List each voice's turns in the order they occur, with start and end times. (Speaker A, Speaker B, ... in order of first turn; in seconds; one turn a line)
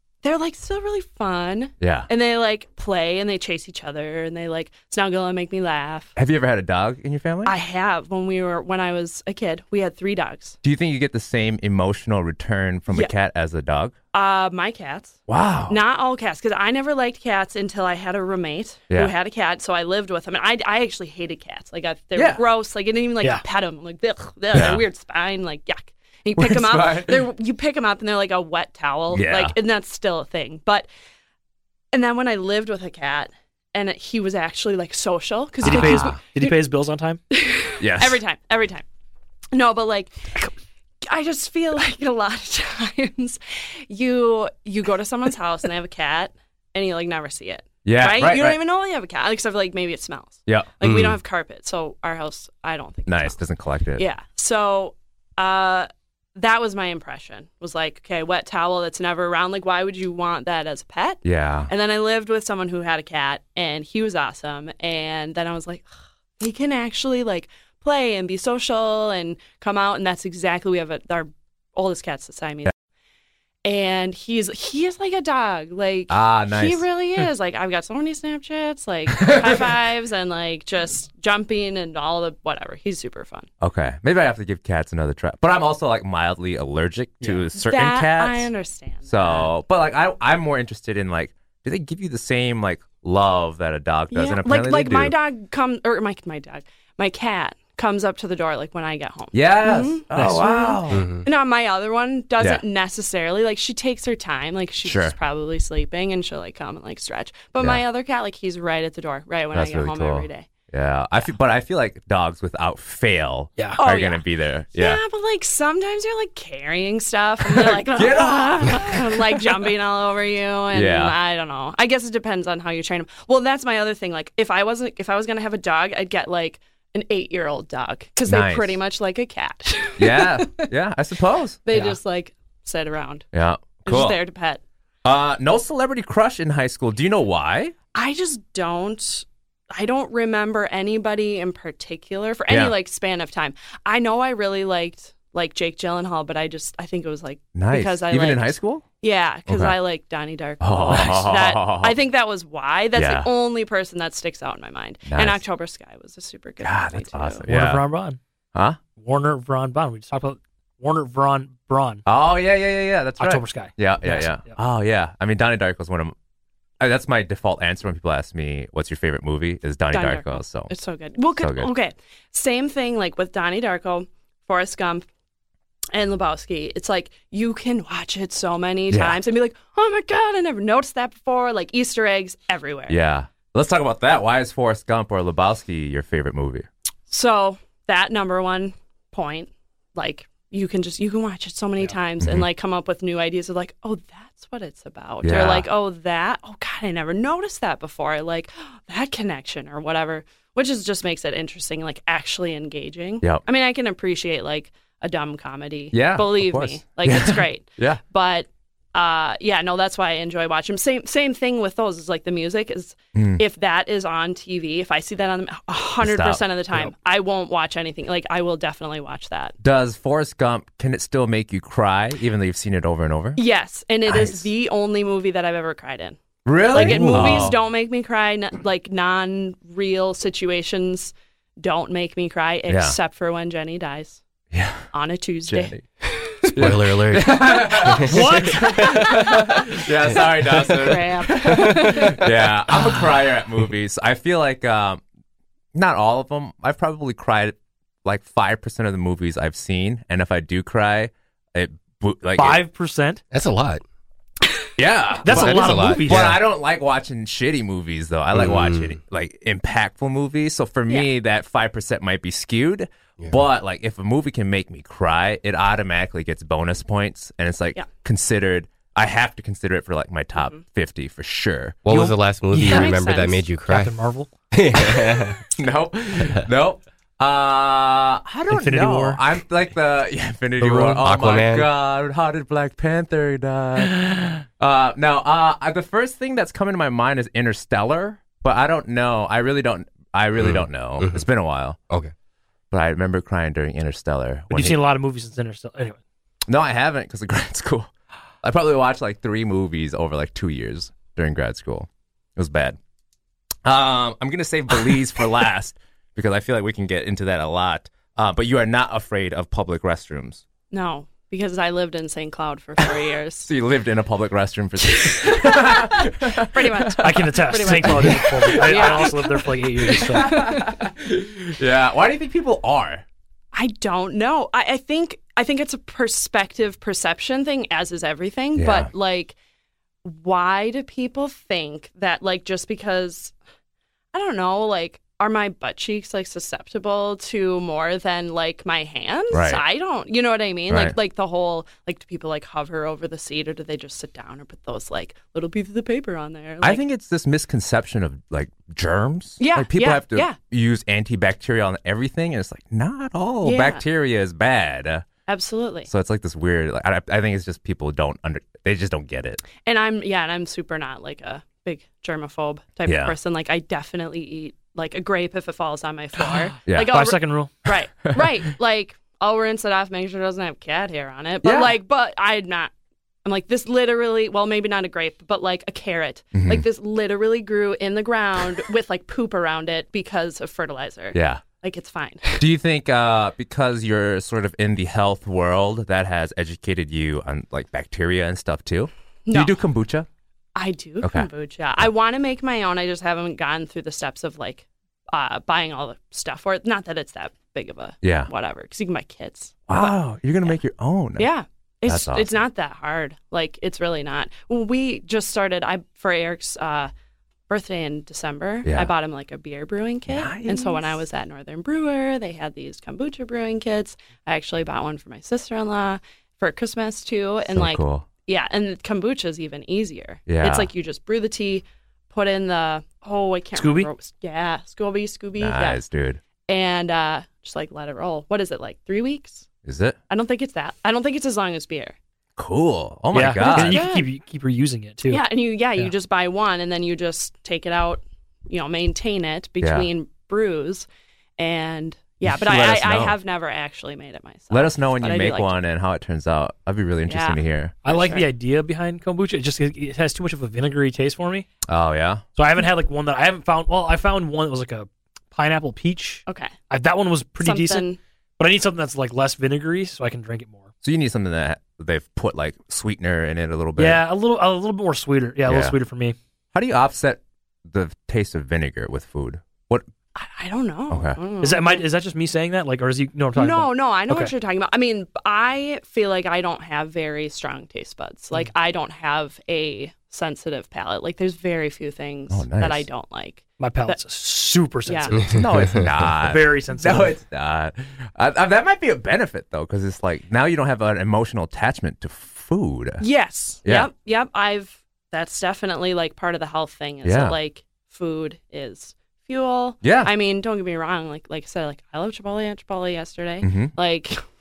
Speaker A: 0.2-6.1
Speaker B: 1.8-2.1
Speaker B: 6.2-7.5
Speaker A: 7.5-10.6
Speaker B: 10.6-13.9
Speaker A: 14.1-30.9
Speaker B: 15.3-15.8
Speaker B: 22.2-22.4
Speaker B: 24.5-24.8
Speaker B: 26.4-27.2
Speaker B: 29.1-29.5
Speaker A: 31.9-36.5
Speaker B: 35.6-36.2
Speaker C: 35.6-37.2
Speaker A: 37.3-38.9
Speaker B: 37.8-38.2
Speaker A: 39.5-40.5
Speaker A: 41.0-53.4
Speaker B: 47.8-48.6
Speaker D: 50.8-51.2
Speaker B: 53.1-54.0
Speaker A: 54.0-72.7
Speaker B: 61.2-61.7
Speaker A: 73.7-83.5
Speaker B: 76.1-76.8
Speaker B: 79.2-79.6
Speaker B: 83.6-88.5
Speaker C: 87.2-87.5
Speaker A: 87.5-89.5
Speaker B: 89.1-95.1
Speaker A: 94.1-110.5
Speaker B: 99.3-101.0
Speaker C: 100.2-100.5
Speaker D: 100.9-101.3
Speaker B: 104.8-105.2
Speaker B: 109.5-115.0
Speaker C: 113.6-113.8
Speaker A: 113.8-130.7
Speaker B: 118.0-119.0
Speaker B: 120.7-121.2
Speaker B: 128.3-128.8
Speaker B: 130.0-131.6
Speaker A: 131.7-133.3
Speaker B: 133.3-134.2
Speaker A: 133.8-134.6
Speaker B: 135.1-137.8
Speaker A: 137.9-157.5
Speaker B: 142.5-142.8
Speaker B: 147.6-148.8
Speaker B: 149.5-149.8
Speaker B: 150.6-151.9
Speaker B: 152.9-153.3
Speaker B: 155.1-155.4
Speaker B: 156.6-157.8
Speaker C: 157.5-158.2
Speaker C: 159.0-162.0
Speaker B: 162.1-166.2
Speaker C: 163.2-164.6
Speaker B: 166.8-170.7
Speaker A: 169.9-175.1
Speaker B: 171.4-171.7
Speaker A: 175.9-183.0
Speaker B: 178.9-179.2
Speaker B: 182.9-186.7
Speaker A: 187.1-219.6
Speaker B: 192.2-192.5
Speaker B: 195.2-195.7
Speaker B: 205.9-208.0
Speaker B: 213.2-213.4
Speaker B: 216.0-216.4
Speaker B: 219.6-223.4
Speaker A: 223.4-226.2
Speaker B: 224.1-224.5
Speaker B: 226.4-227.6
Speaker A: 226.7-234.2
Speaker C: 226.7-227.6
Speaker B: 232.7-233.0
Speaker B: 234.5-234.9
Speaker A: 234.9-236.5
Speaker B: 235.5-235.8
Speaker D: 236.4-239.4
Speaker B: 236.6-245.0
Speaker C: 238.0-238.9
Speaker A: 239.0-239.6
Speaker A: 240.1-242.5
Speaker D: 241.5-241.8
Speaker B: 245.7-252.6
Speaker C: 252.4-253.2
Speaker D: 253.3-253.8
Speaker B: 254.8-271.8
Speaker C: 255.2-256.4
Speaker D: 255.3-256.4
Speaker D: 258.3-259.0
Speaker A: 270.4-270.6
Speaker D: 271.9-273.9
Speaker C: 271.9-273.0
Speaker A: 272.6-273.4
Speaker C: 273.7-274.3
Speaker D: 274.5-275.4
Speaker B: 275.5-291.8
Speaker D: 276.2-276.4
Speaker C: 278.5-279.2
Speaker D: 280.6-281.7
Speaker C: 280.7-281.0
Speaker D: 290.4-291.2
Speaker B: 292.7-294.8
Speaker C: 294.5-296.0
Speaker B: 296.5-297.9
Speaker B: 298.4-302.8
Speaker B: 303.6-310.4
Speaker A: 310.7-313.5
Speaker B: 313.4-319.2
Speaker A: 315.0-320.8
Speaker C: 317.0-320.4
Speaker B: 320.1-323.0
Speaker A: 323.5-329.4
Speaker B: 328.6-328.9
Speaker A: 330.0-333.4
Speaker A: 334.1-346.8
Speaker B: 339.3-339.6
Speaker B: 340.7-341.0
Speaker B: 346.6-355.1
Speaker A: 349.4-350.4
Speaker A: 353.4-353.8
Speaker A: 355.3-355.9
Speaker B: 355.9-359.4
Speaker A: 359.6-372.7
Speaker B: 362.9-363.1
Speaker B: 366.7-366.9
Speaker C: 366.9-367.5
Speaker B: 371.4-371.7
Speaker A: 373.2-382.4
Speaker B: 376.3-376.6
Speaker B: 381.1-381.4
Speaker B: 382.4-390.1
Speaker A: 389.3-389.6
Speaker A: 390.6-400.6
Speaker B: 391.0-391.3
Speaker B: 398.0-398.3
Speaker B: 399.7-401.3
Speaker A: 401.2-406.9
Speaker B: 401.9-402.4
Speaker A: 407.5-425.8
Speaker B: 410.1-410.9
Speaker B: 417.5-418.1
Speaker B: 420.3-420.7
Speaker C: 423.6-423.9
Speaker B: 425.4-426.2
Speaker A: 426.5-429.5
Speaker B: 429.6-430.0
Speaker A: 430.1-431.9
Speaker B: 432.4-433.9
Speaker C: 433.1-435.2
Speaker A: 433.4-434.1
Speaker A: 435.1-440.9
Speaker B: 439.6-439.9
Speaker A: 441.4-445.5
Speaker B: 442.3-443.1
Speaker B: 444.5-447.8
Speaker A: 447.1-448.2
Speaker C: 447.9-451.5
Speaker B: 451.7-452.2
Speaker C: 452.4-457.9
Speaker A: 456.3-456.5
Speaker A: 457.4-458.0
Speaker C: 458.4-460.7
Speaker B: 460.8-464.0
Speaker C: 463.8-466.2
Speaker B: 465.5-465.7
Speaker B: 466.5-469.9
Speaker A: 470.2-471.8
Speaker B: 470.9-471.2
Speaker C: 471.4-474.3
Speaker A: 473.4-484.0
Speaker B: 482.3-482.9
Speaker C: 483.6-487.2
Speaker A: 484.9-485.2
Speaker D: 485.1-485.9
Speaker B: 485.3-493.1
Speaker A: 493.0-504.2
Speaker B: 497.0-497.4
Speaker B: 499.8-500.1
Speaker B: 503.4-503.8